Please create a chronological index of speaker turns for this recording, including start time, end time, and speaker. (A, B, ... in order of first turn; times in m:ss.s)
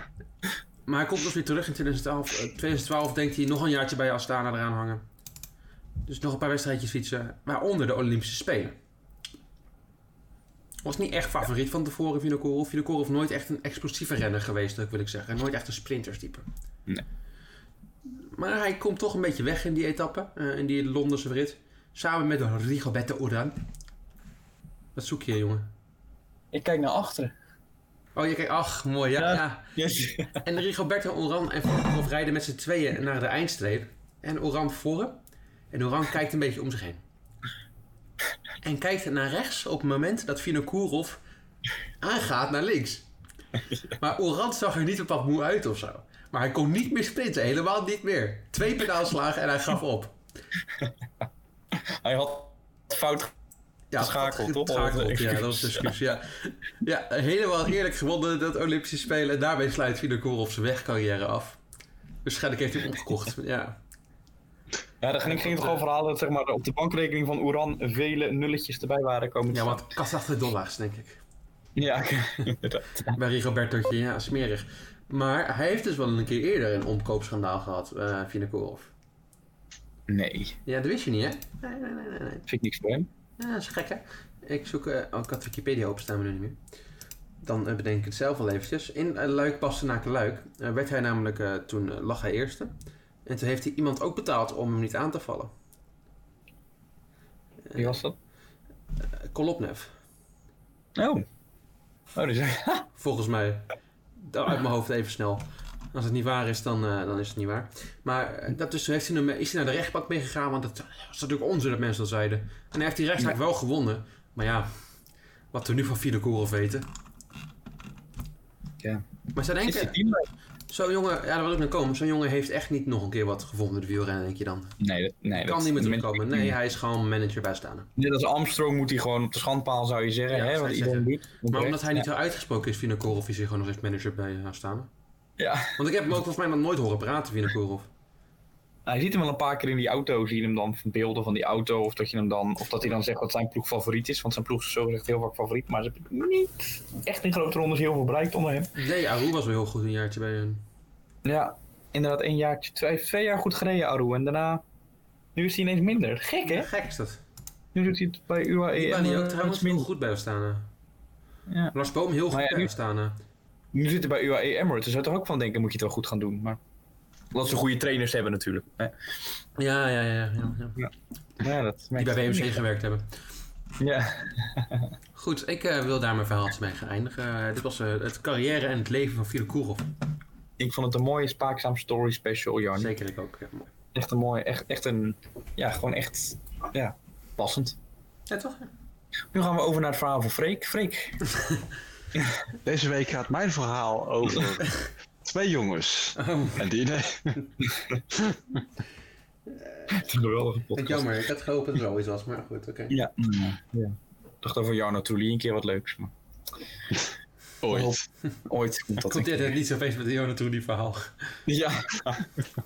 0:00.9-0:05.0 A
0:06.1-0:08.7 A
0:10.8-0:16.4 A
0:18.3-0:23.6 A
0:24.9-0:25.7 A
0:26.5-0:27.3 B
0:28.2-0:29.7 A
0:29.2-0:30.4 B
0:30.4-0:35.2 A
0:35.7-0:37.0 A
0:38.6-0:41.2 A
0:42.0-0:43.0 A
0:43.9-0:50.1 A
0:51.7-0:53.3 B
0:53.9-1:01.6 A
0:54.0-0:55.9 B
1:02.2-1:03.8 A
1:05.0-1:09.9 B
1:05.3-1:05.8 A
1:09.5-1:11.2 A
1:11.8-1:13.2 B
1:13.1-1:18.9 A
1:20.1-1:20.6 B
1:20.6-1:22.4 A
1:22.5-1:23.1 B
1:23.4-1:26.6 A
1:27.4-1:32.7 A
1:33.2-1:35.5 A
1:37.7-1:38.0 A
1:37.8-1:38.2 B
1:39.2-1:39.9 A
1:41.0-1:41.2 B
1:42.1-1:42.9 B
1:43.0-1:43.7 A
1:44.2-1:54.7 A
1:55.5-1:56.9 A
1:59.3-2:00.0 A
1:59.6-2:00.3 B
2:00.7-2:04.8 A
2:04.8-2:06.5 B
2:05.3-2:07.9 A
2:08.0-2:12.0 B
2:10.3-2:14.9 A
2:15.4-2:15.8 B
2:15.8-2:17.9 A
2:18.8-2:28.7 B
2:28.7-2:30.6 A
2:31.2-2:34.6 B
2:35.3-2:36.7 B
2:36.4-2:37.2 A
2:37.7-2:39.8 B
2:38.7-2:40.7 A
2:41.5-2:41.7 B
2:41.7-2:43.2 A
2:42.3-2:42.7 B
2:43.7-2:46.6 B
2:47.3-2:48.9 B
2:49.6-2:50.8 A
2:50.8-2:52.6 B
2:52.0-2:53.1 A
2:53.8-2:54.9 B
2:55.1-2:59.8 A
3:00.6-3:02.9 B
3:02.8-3:03.7 A
3:03.9-3:07.8 B
3:08.3-3:08.7 A
3:09.3-3:11.2 B
3:12.6-3:17.4 C
3:16.2-3:16.6 A
3:18.1-3:18.4 C
3:19.5-3:19.9 A
3:19.9-3:21.1 B
3:20.7-3:23.0 A
3:22.9-3:26.1 B
3:27.6-3:28.0 C
3:27.7-3:29.5 B
3:29.0-3:31.3 A
3:31.5-3:32.2 B